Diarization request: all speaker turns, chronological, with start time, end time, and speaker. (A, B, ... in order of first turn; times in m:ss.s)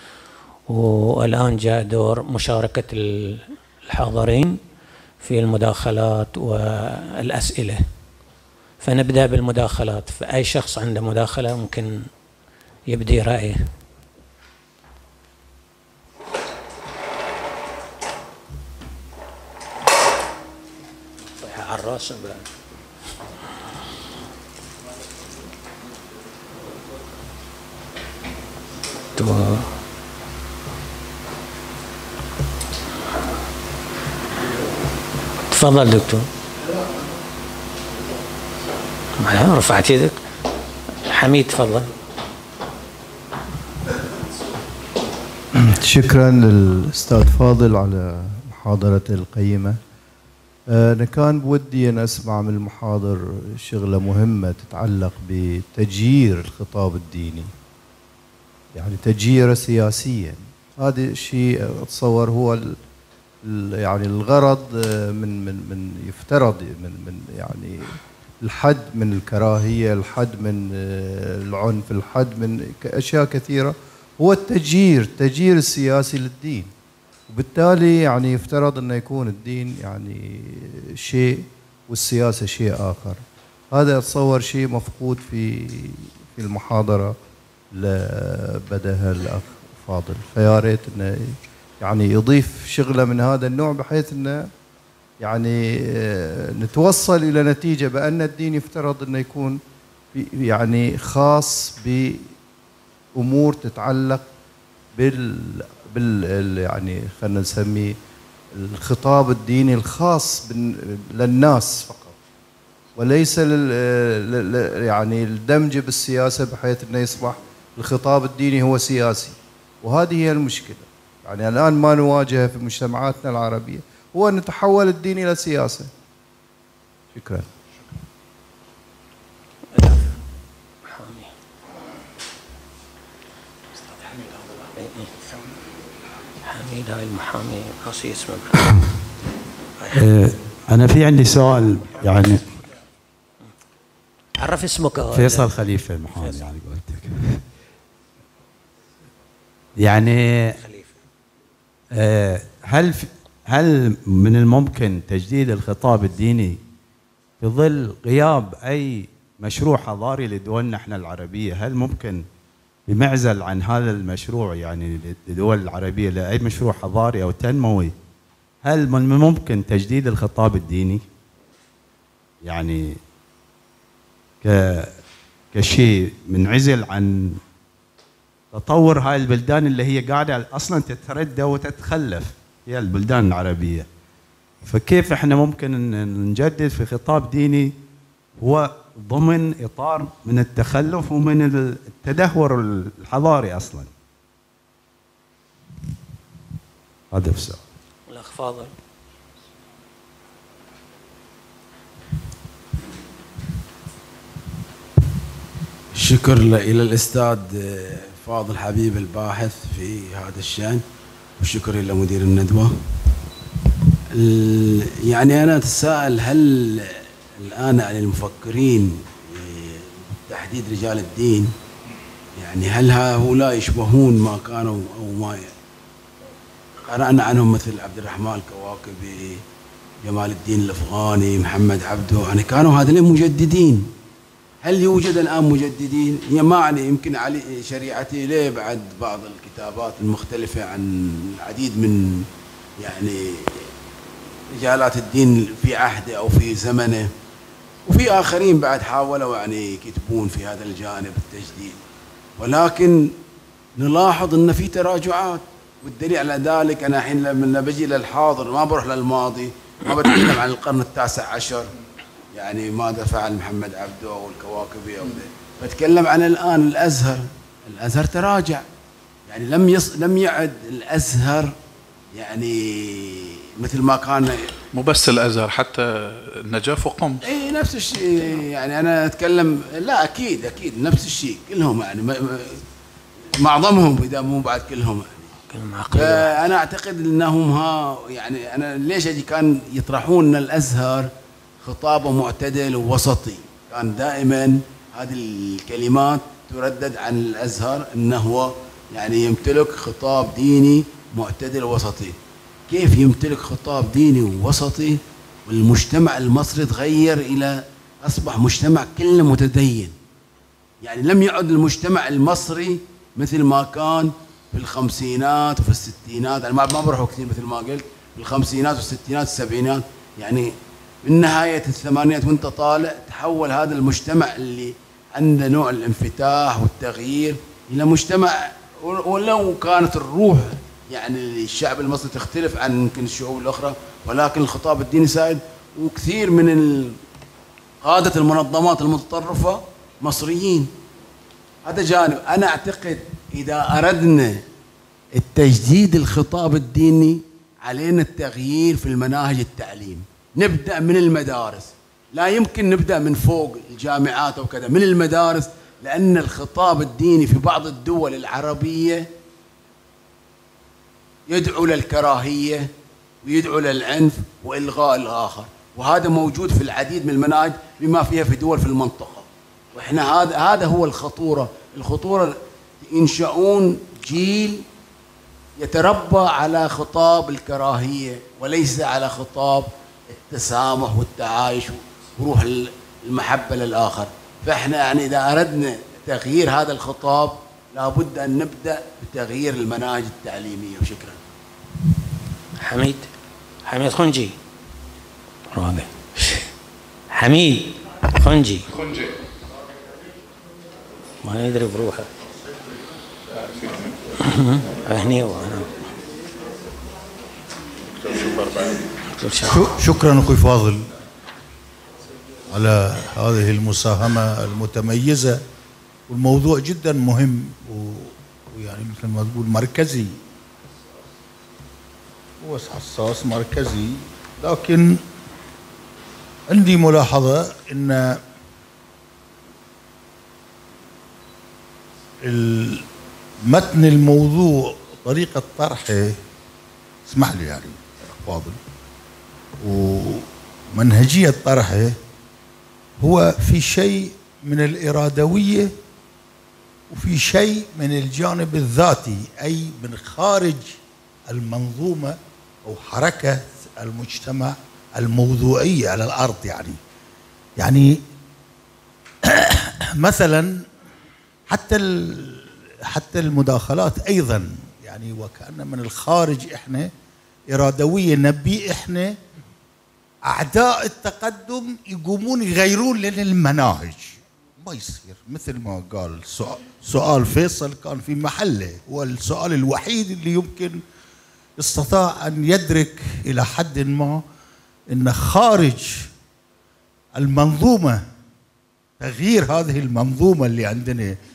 0:00.7-0:04.6 A
0:05.2-0:07.8 A
0:08.8-0:12.0 A
0:12.9-0:13.6 A
0:21.4-0:22.5 A
0:29.1-0:29.7 A
0:35.5-0:36.3 A
0:39.2-0:40.2 A
0:41.1-0:41.9 A
0:45.6-0:49.8 B
0:50.7-0:57.5 B
0:58.7-1:02.8 B
1:03.4-1:16.7 B
1:17.3-1:27.2 B
1:27.7-1:34.5 B
1:35.2-1:39.6 B
1:40.1-1:42.3 B
1:43.2-1:44.2 B
1:45.0-1:48.0 B
1:48.5-1:51.9 B
1:53.0-2:05.9 B
2:09.7-2:10.1 A
2:10.8-2:11.3 A
2:14.8-2:15.1 A
2:16.4-2:18.6 A
2:19.9-2:22.4 C
2:24.4-2:25.5 A
2:25.1-2:27.4 C
2:26.1-2:26.5 A
2:29.8-2:30.5 C
2:30.6-2:31.0 A
2:32.0-2:36.6 C
2:37.4-2:42.2 C
2:42.9-2:47.9 C
2:48.6-2:51.0 C
2:52.4-2:53.0 C
2:54.4-2:54.9 C
2:55.5-2:57.4 C
2:58.5-3:03.9 C
3:04.6-3:07.7 C
3:08.4-3:13.9 C
3:17.1-3:17.6 C
3:18.1-3:18.7 A
3:26.0-3:30.8 D
3:31.4-3:32.7 D
3:34.1-3:41.5 D
3:42.4-3:45.5 D
3:46.8-3:49.4 D
3:50.0-3:53.9 D
3:54.6-4:02.2 D
4:02.8-4:03.7 D
4:04.5-4:07.1 D
4:07.9-4:11.8 D
4:12.4-4:13.1 D
4:13.8-4:21.7 D
4:22.3-4:28.6 D
4:29.3-4:31.5 D
4:32.1-4:34.5 D
4:34.7-4:37.2 E
4:37.2-4:42.6 D
4:43.4-4:45.3 D
4:45.5-4:46.3 A
4:45.9-4:51.1 D
4:51.6-5:02.2 D
5:02.7-5:09.9 D
5:10.8-5:37.0 D
5:37.8-5:40.7 D
5:41.6-5:44.4 D
5:45.2-5:59.1 D
6:01.3-6:02.7 D
6:03.2-6:14.6 D
6:15.6-6:31.2 D
6:32.6-6:33.1 A
6:33.6-6:34.3 A
6:35.5-6:36.5 A
6:37.1-6:38.7 A
6:38.7-6:39.1 E
6:41.2-6:42.1 A
6:43.4-6:43.9 E
6:44.2-6:45.8 A
6:48.0-6:48.8 E
6:49.1-6:49.7 A
6:49.5-6:50.9 F
6:52.5-6:55.4 F
6:56.1-7:00.2 F
7:02.4-7:05.0 F
7:06.5-7:08.2 F
7:12.2-7:12.8 F
7:13.4-7:16.2 F
7:17.0-7:18.6 F
7:19.6-7:22.0 F
7:23.0-7:25.7 F
7:26.9-7:30.8 F
7:31.3-7:36.8 F
7:37.6-7:38.0 F
7:39.2-7:40.5 F
7:41.5-7:46.9 F
7:47.5-7:49.2 F
7:50.2-8:00.8 F
8:01.6-8:04.2 F
8:04.9-8:06.1 F
8:07.2-8:08.0 F
8:09.0-8:11.1 F